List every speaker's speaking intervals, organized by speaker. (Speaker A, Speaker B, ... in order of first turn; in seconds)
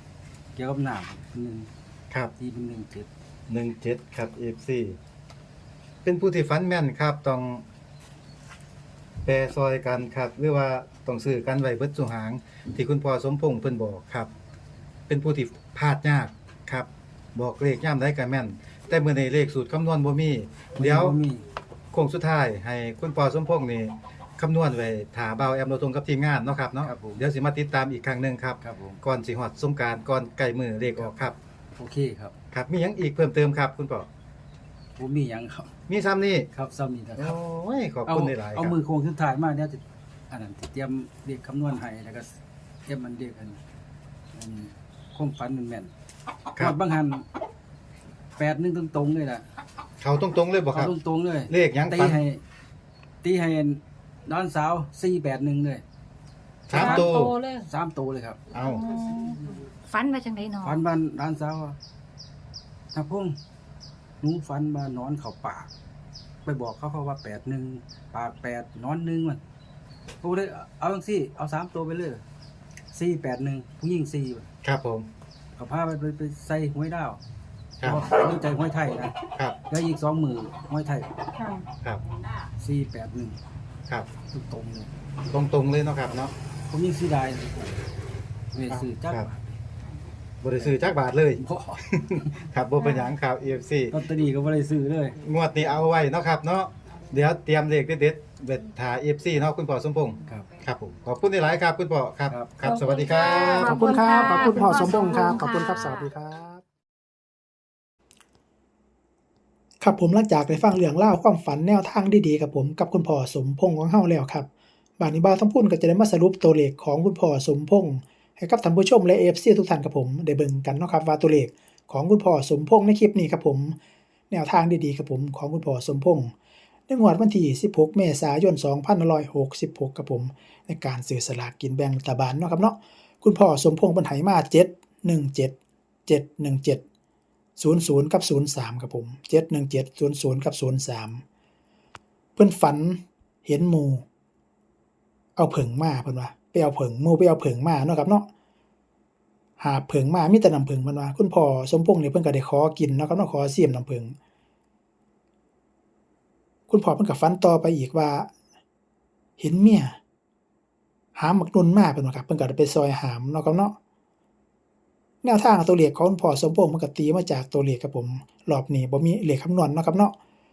Speaker A: 0.6-1.7, 2.4-3.1, 20.8-21.4, 26.8-27.2, 28.6-29.0, 31.8-32.3, 35.0-35.7, 36.5-37.4, 38.1-43.6, 44.3-45.9, 46.6-47.3, 48.4-49.5, 50.7-52.4, 53.2-55.8, 56.7-58.4, 60.6-61.8, 62.9-63.4, 64.2-65.7, 66.4-69.4, 70.2-72.2, 72.9-74.5, 75.5-77.2, 77.8-81.1, 82.6-83.4, 84.3-84.9, 86.7-87.8, 88.5-89.4, 90.5-92.5, 93.9-95.2
Speaker B: 3.5-5.0, 6.0-7.7, 9.2-14.3, 15.1-21.1, 21.9-31.3, 32.5-34.1, 35.9-36.5, 37.2-38.8, 50.0-50.9, 51.5-52.2, 56.7-57.3, 58.5-58.9, 74.6-75.1, 85.3-86.3, 88.7-89.2, 90.4-93.9, 95.2-103.9
Speaker C: 56.7-57.7, 58.6-60.8, 81.4-81.7, 92.8-93.1, 102.6-106.1
Speaker D: 103.5-106.6, 109.8-114.5, 115.0-123.7, 124.3-126.3, 126.9-135.5, 136.1-136.8, 137.6-141.2, 142.3-144.0, 145.3-148.3, 149.6-154.1, 156.7-158.3, 159.4-160.0, 161.2-163.8, 165.2-170.1